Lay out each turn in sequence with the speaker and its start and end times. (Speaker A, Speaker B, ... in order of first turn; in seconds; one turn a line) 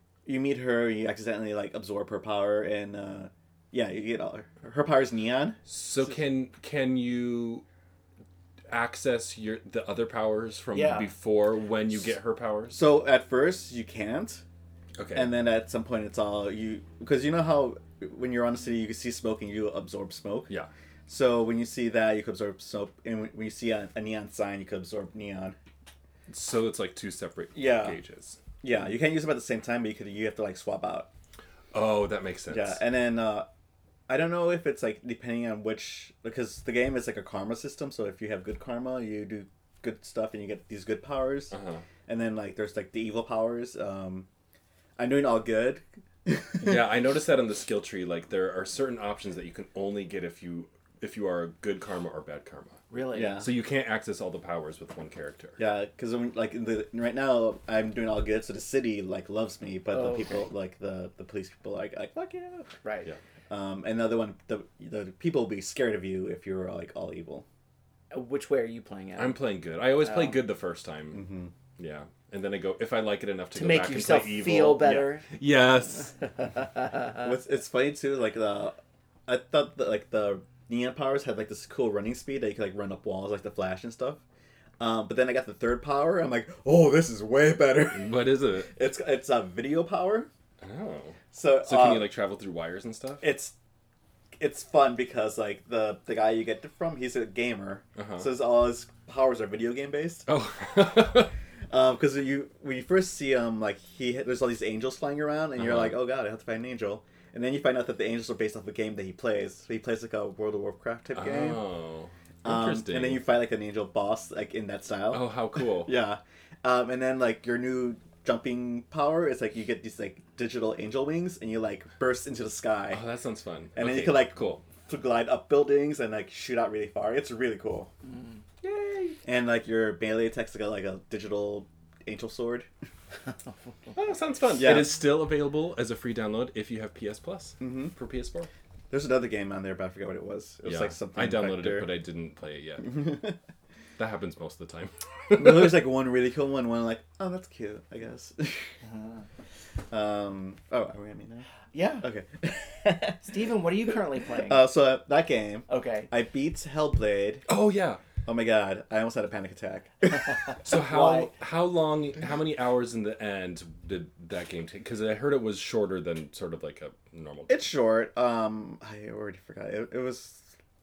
Speaker A: 0.2-5.6
Speaker B: 5.7-7.6
Speaker B: 8.7-12.8
Speaker C: 10.7-11.1
Speaker A: 12.7-14.4
Speaker B: 15.0-15.3
Speaker A: 15.1-20.5
Speaker A: 21.1-25.6
Speaker B: 26.3-28.4
Speaker A: 27.5-28.0
Speaker A: 28.6-31.1
Speaker B: 31.7-32.8
Speaker A: 32.5-33.5
Speaker A: 34.1-41.5
Speaker B: 41.5-41.8
Speaker A: 42.1-44.3
Speaker A: 45.0-46.8
Speaker B: 46.6-55.6
Speaker C: 52.9-53.4
Speaker A: 53.1-53.5
Speaker A: 55.6-62.7
Speaker C: 59.9-60.5
Speaker C: 62.8-63.1
Speaker A: 63.5-67.5
Speaker C: 68.1-69.4
Speaker B: 69.2-76.2
Speaker C: 70.0-70.4
Speaker A: 71.1-71.5
Speaker C: 73.5-75.2
Speaker A: 77.2-78.8
Speaker A: 79.3-84.2
Speaker A: 84.8-90.3
Speaker B: 87.9-88.7
Speaker B: 90.6-93.2
Speaker A: 91.3-92.1
Speaker A: 93.2-93.5
Speaker A: 94.4-100.3
Speaker B: 98.0-98.3
Speaker B: 100.3-101.3
Speaker A: 101.7-111.6
Speaker B: 105.6-106.0
Speaker B: 111.1-113.2
Speaker A: 112.4-123.0
Speaker B: 115.1-115.9
Speaker B: 122.9-124.6
Speaker A: 123.7-127.9
Speaker A: 129.2-132.7
Speaker B: 133.9-138.5
Speaker A: 134.6-135.0
Speaker A: 137.6-137.9
Speaker A: 138.9-141.9
Speaker B: 140.6-143.2
Speaker A: 142.8-143.4
Speaker B: 144.0-145.8
Speaker A: 145.3-148.7
Speaker C: 148.8-149.2
Speaker A: 149.9-151.5
Speaker C: 151.7-152.1
Speaker A: 152.0-153.3
Speaker C: 153.2-154.7
Speaker A: 154.4-157.4
Speaker C: 155.7-156.1
Speaker B: 157.5-158.0
Speaker A: 158.2-160.5
Speaker B: 160.6-167.6
Speaker C: 160.7-161.3
Speaker A: 167.5-170.5